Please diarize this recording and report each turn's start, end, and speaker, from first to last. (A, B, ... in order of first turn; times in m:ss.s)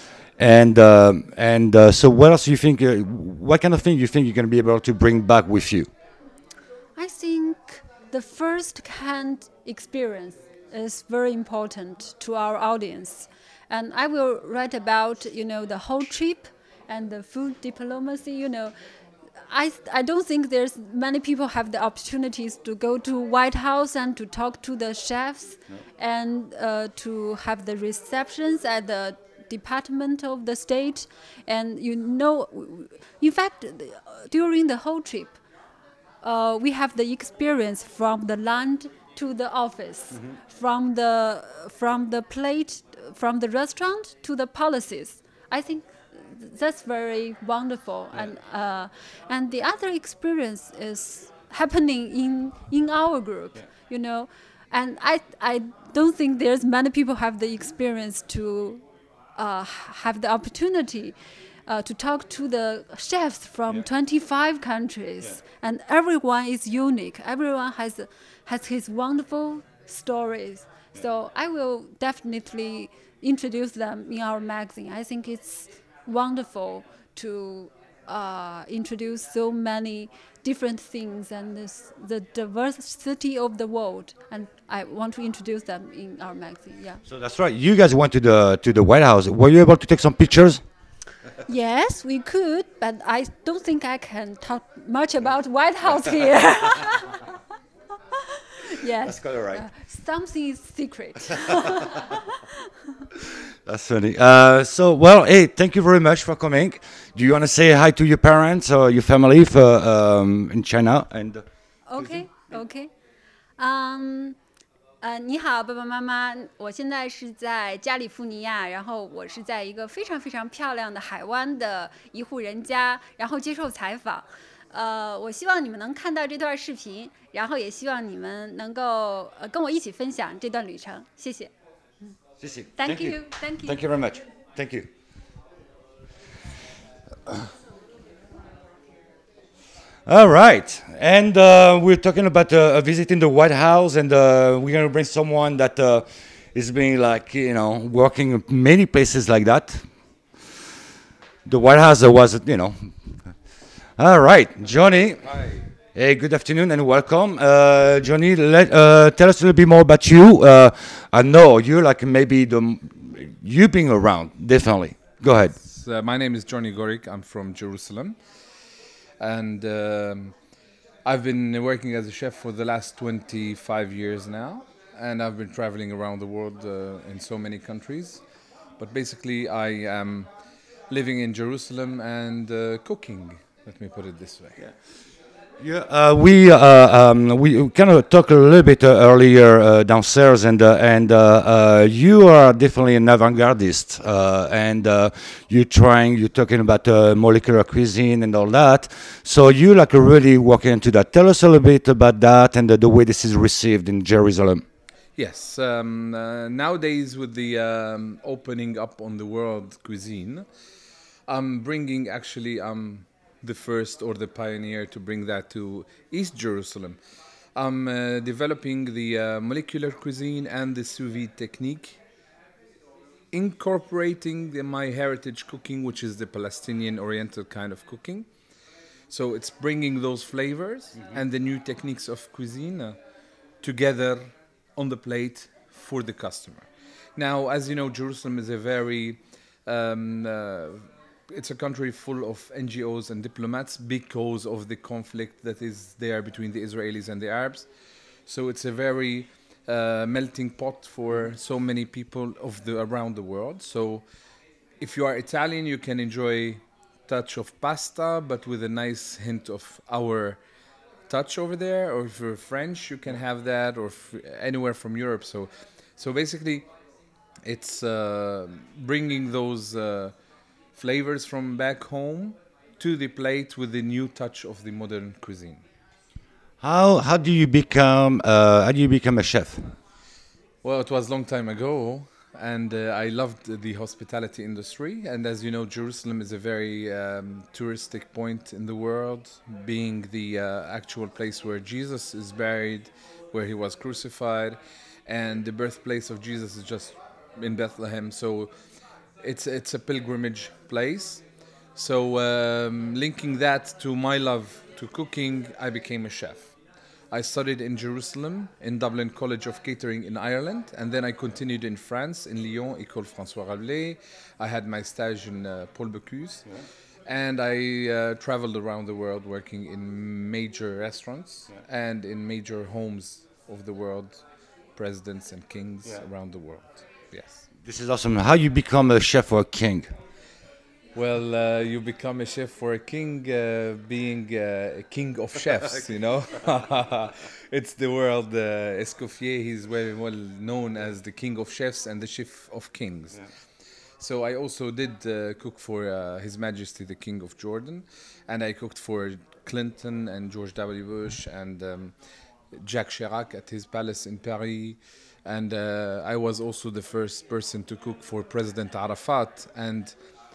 0:00.4-0:05.9 A
0:07.0-0:18.8 B
0:19.5-0:35.4 B
0:36.2-0:58.8 B
0:59.4-1:27.0 B
1:27.1-1:30.6 A
1:31.5-1:37.2 B
1:38.7-1:42.2 B
1:39.0-1:39.7 A
1:43.7-1:51.4 A
1:51.9-1:52.9 B
1:53.6-1:54.4 B
1:55.0-2:11.5 B
2:12.4-2:14.9 A
2:12.8-2:13.8 B
2:20.1-2:29.9 A
2:31.5-2:32.9 A
2:34.0-2:35.4 A
2:35.9-2:45.6 A
2:45.6-2:48.2 C
2:49.2-2:50.4 C
2:51.0-2:58.2 C
2:58.8-3:00.3 C
3:00.9-3:04.6 C
3:05.6-3:24.6 A
3:25.2-3:30.5 C
3:31.3-3:37.0 C
3:37.6-3:42.0 C
3:43.3-3:48.3 C
3:49.1-3:53.0 C
3:53.6-4:07.7 C
4:08.3-4:14.0 C
4:14.8-4:20.4 C
4:21.1-4:26.7 C
4:27.5-4:30.1 C
4:30.8-4:35.6 C
4:36.6-4:39.7 A
4:40.6-4:58.5 C
4:59.2-5:01.2 C
5:01.8-5:06.5 C
5:07.1-5:16.5 C
5:17.0-5:24.2 C
5:24.8-5:27.4 C
5:27.6-5:29.9 A
5:31.0-5:43.2 C
5:44.0-5:51.9 C
5:52.6-5:59.9 C